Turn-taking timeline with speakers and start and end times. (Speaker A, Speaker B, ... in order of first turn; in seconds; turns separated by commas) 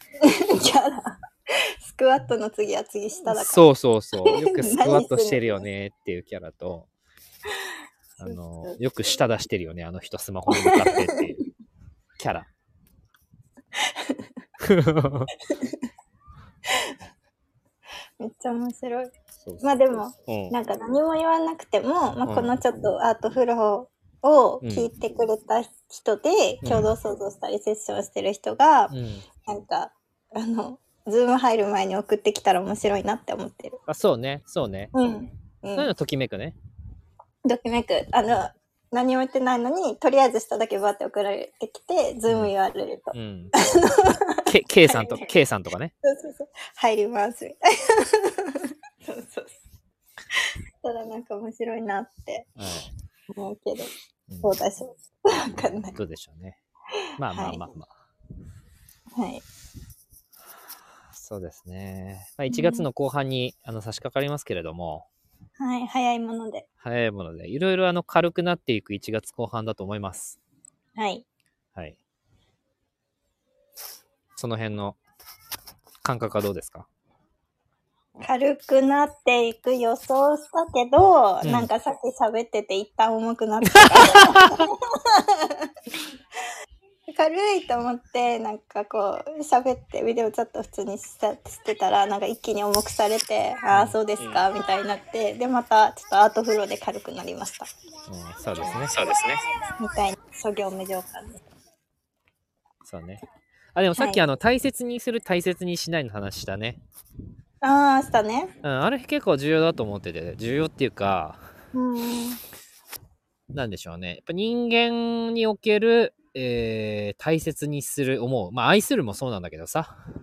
Speaker A: 0.2-3.7, Speaker B: 3.3-6.9, Speaker A: 4.2-5.6, Speaker B: 8.2-11.4, Speaker A: 8.2-8.8, Speaker A: 10.5-11.2, Speaker B: 12.2-12.5, Speaker A: 13.8-14.3, Speaker B: 14.6-15.3, Speaker A: 15.5-15.8, Speaker A: 16.7-17.0, Speaker A: 18.2-28.9, Speaker B: 19.4-19.7, Speaker B: 20.3-20.6, Speaker B: 22.2-22.6, Speaker B: 24.6-24.9, Speaker B: 26.6-26.9, Speaker B: 28.9-29.2, Speaker A: 29.4-33.8, Speaker B: 33.9-34.9, Speaker A: 34.9-35.9, Speaker B: 35.8-36.6, Speaker A: 37.5-45.3, Speaker B: 43.1-43.5, Speaker B: 44.5-45.9, Speaker A: 46.0-49.6, Speaker A: 50.4-52.5, Speaker B: 52.6-52.9, Speaker A: 53.3-53.9, Speaker B: 54.3-54.6, Speaker A: 54.4-56.0, Speaker B: 56.0-56.6, Speaker B: 57.2-57.9, Speaker A: 57.3-57.6, Speaker A: 59.1-59.4, Speaker B: 61.1-65.1, Speaker A: 62.5-62.9, Speaker A: 65.6-66.7, Speaker B: 66.8-70.4, Speaker A: 71.0-71.2, Speaker B: 74.4-75.0, Speaker B: 76.0-76.9, Speaker A: 78.2-85.7, Speaker B: 81.4-81.7, Speaker B: 83.7-84.7, Speaker A: 87.1-97.7, Speaker B: 93.7-94.4, Speaker B: 98.1-99.4, Speaker A: 99.8-101.4, Speaker B: 102.8-103.2, Speaker B: 103.8-106.8, Speaker A: 104.0-104.2, Speaker A: 107.6-108.5, Speaker B: 108.6-111.4, Speaker A: 111.7-112.4, Speaker B: 113.5-120.0